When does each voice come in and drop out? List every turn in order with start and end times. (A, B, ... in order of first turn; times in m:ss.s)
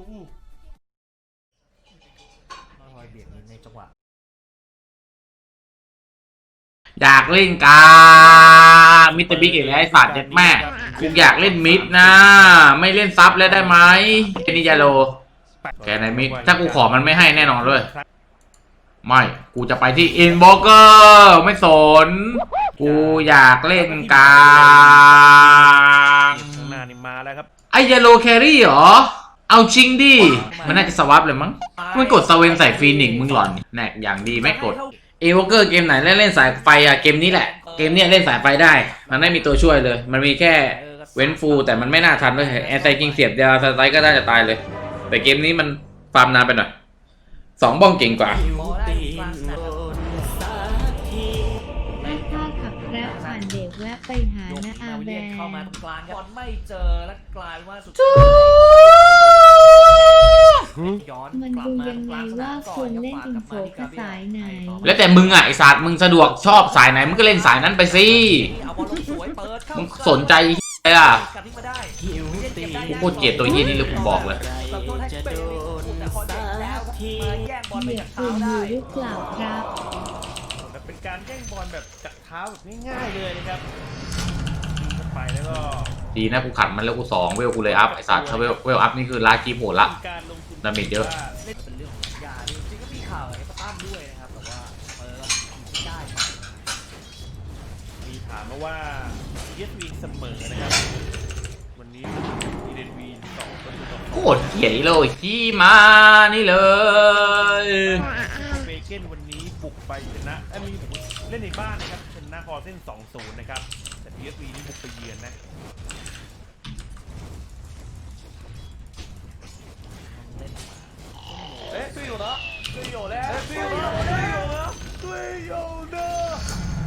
0:02.8-0:03.9 A
0:07.0-0:15.2 B
0:09.2-0:12.7 C
0:13.3-0:14.0 C
0:15.7-0:18.0 C
0:15.8-0:17.9 B
0:19.0-0:26.8 B
0:22.8-0:27.5 C
0:27.7-0:46.7 B
0:30.2-0:31.0 A
0:31.8-0:33.6 A
0:34.4-0:34.9 A
0:36.2-0:39.6 A
0:40.5-0:43.4 A
0:47.6-0:48.4 B
0:48.4-0:51.1 A
0:51.9-0:53.5 A
0:52.0-0:55.8 D
0:54.4-1:05.6 A
1:01.3-1:05.0 D
1:04.8-1:08.5 B
1:06.5-1:18.8 A
1:09.8-1:11.2 B
1:12.9-1:14.4 B
1:13.4-1:13.9 D
1:17.7-1:19.7 D
1:20.6-1:23.7 C
1:24.7-1:25.9 C
1:26.2-1:29.9 B
1:27.7-1:28.6 C
1:29.8-1:31.4 C
1:30.6-1:31.1 B
1:31.4-1:36.6 A
1:38.0-1:41.1 C
1:41.7-1:44.8 C
1:44.1-1:48.1 B
1:46.8-1:55.4 C
2:00.1-2:04.3 A